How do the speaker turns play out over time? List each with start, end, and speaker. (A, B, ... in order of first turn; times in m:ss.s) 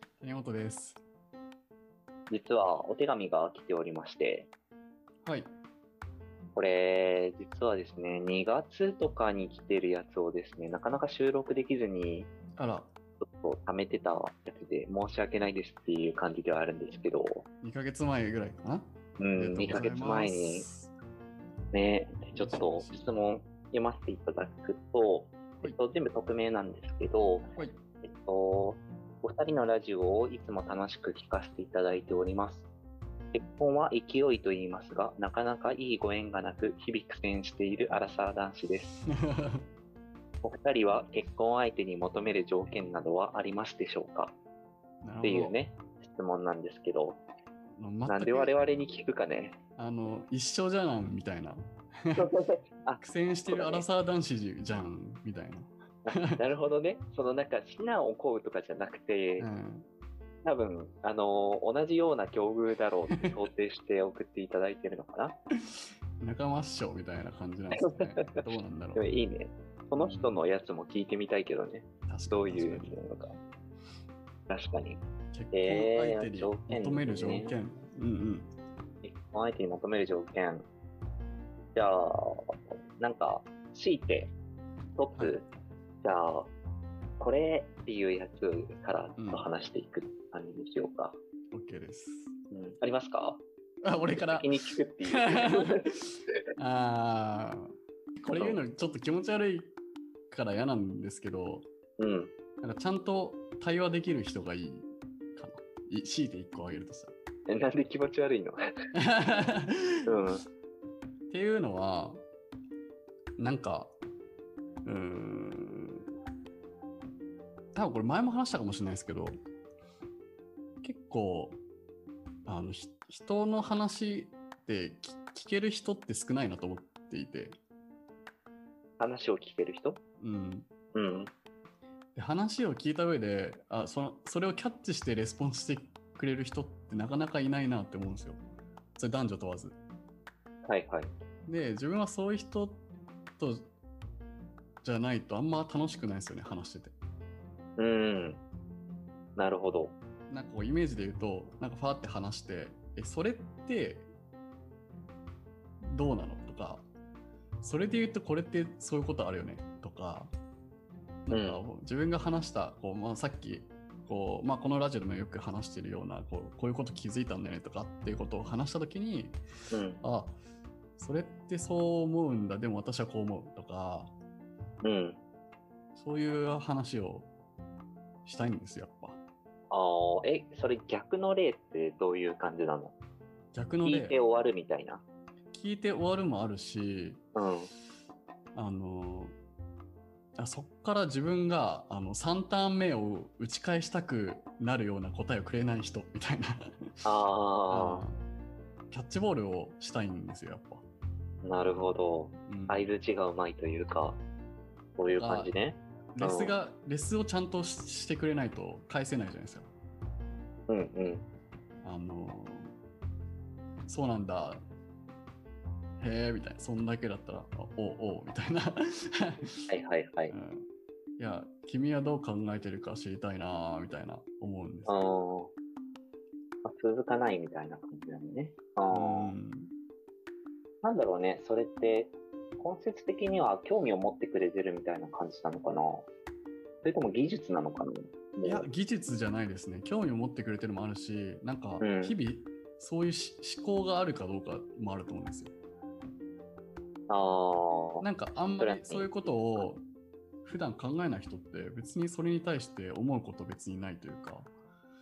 0:00.2-0:01.0 A
0:02.3-0:04.5 B
0:05.2-0:05.5 A
0:06.6-0:12.3 B
0:12.6-0:12.9 A
0:13.2-0:17.4 B
0:17.6-0:20.9 A
0:19.2-0:20.7 B
0:21.7-0:32.7 B
0:22.3-0:23.1 A
0:33.3-0:39.0 B
0:39.2-0:39.6 A
0:40.4-0:44.3 B
0:45.0-0:45.6 A
0:45.2-0:47.2 B
0:47.8-0:48.6 A
0:48.0-0:49.6 B
0:49.8-0:52.3 A
0:52.2-0:53.8 B
0:53.0-0:56.4 A
0:56.0-0:59.5 B
0:59.4-0:59.9 A
1:00.4-1:05.4 B
1:06.2-1:09.0 A
1:07.8-1:08.3 B
1:09.0-1:13.4 B
1:10.0-1:10.3 A
1:12.1-1:13.1 A
1:14.5-1:15.0 B
1:15.3-1:18.5 A
1:15.5-1:17.6 B
1:19.0-1:20.7 B
1:21.8-1:24.3 B
1:25.0-1:25.4 B
1:25.2-1:25.5 A
1:26.0-1:26.5 B
1:27.2-1:31.2 B
1:29.2-1:29.5 A
1:31.5-1:32.3 A
1:32.5-1:33.4 B
1:33.8-1:39.8 A
1:34.1-1:35.9 B
1:38.3-1:38.6 B
1:40.3-1:41.7 A
1:42.0-1:42.3 B
1:42.6-1:47.1 A
1:47.5-1:48.6 B
1:48.9-1:50.2 A
1:50.1-1:50.4 B
1:51.3-1:52.2 A
1:53.4-1:54.0 A
1:54.8-1:56.1 A
1:57.7-1:59.4 A
2:00.8-2:01.6 A
2:02.5-2:07.6 A
2:09.0-2:10.0 B
2:10.2-2:10.7 A
2:10.9-2:11.3 B
2:12.2-2:18.4 A
2:19.0-2:19.8 A
2:20.7-2:21.1 B
2:21.5-2:22.8 A
2:23.4-2:23.7 A
2:24.8-2:26.9 A
2:27.8-2:28.4 B
2:29.4-2:30.0 B
2:30.3-2:34.1 A
2:35.8-2:36.9 A
2:37.6-2:40.3 A
2:41.2-2:49.4 A
2:41.3-2:41.6 B
2:49.7-2:50.0 B
2:50.0-2:50.4 A
2:51.0-2:54.1 A
2:54.8-2:55.2 B
2:55.9-2:57.3 A
2:58.2-2:59.2 A
2:59.7-3:02.9 B
3:03.5-3:04.2 A
3:03.8-3:05.0 B
3:05.5-3:07.2 A
3:07.3-3:07.7 B
3:08.6-3:09.4 A
3:10.4-3:17.1 A
3:17.0-3:18.0 B
3:17.7-3:18.2 A
3:18.9-3:20.8 A
3:21.4-3:24.2 B
3:22.5-3:22.9 A
3:25.0-3:26.6 B
3:25.1-3:25.5 A
3:26.1-3:29.7 A
3:30.7-3:31.2 B
3:31.8-3:32.8 A
3:33.9-3:34.6 A
3:36.0-3:39.7 A
3:39.7-3:40.3 B
3:40.3-3:45.0 A
3:44.9-3:45.5 B
3:46.6-3:49.3 B
3:48.9-3:49.7 A
3:50.8-3:56.1 B
3:56.8-3:58.7 B
3:58.4-4:05.5 A
4:01.8-4:02.2 B
4:07.1-4:08.0 B
4:08.0-4:09.8 A
4:08.6-4:09.6 B
4:10.4-4:14.5 A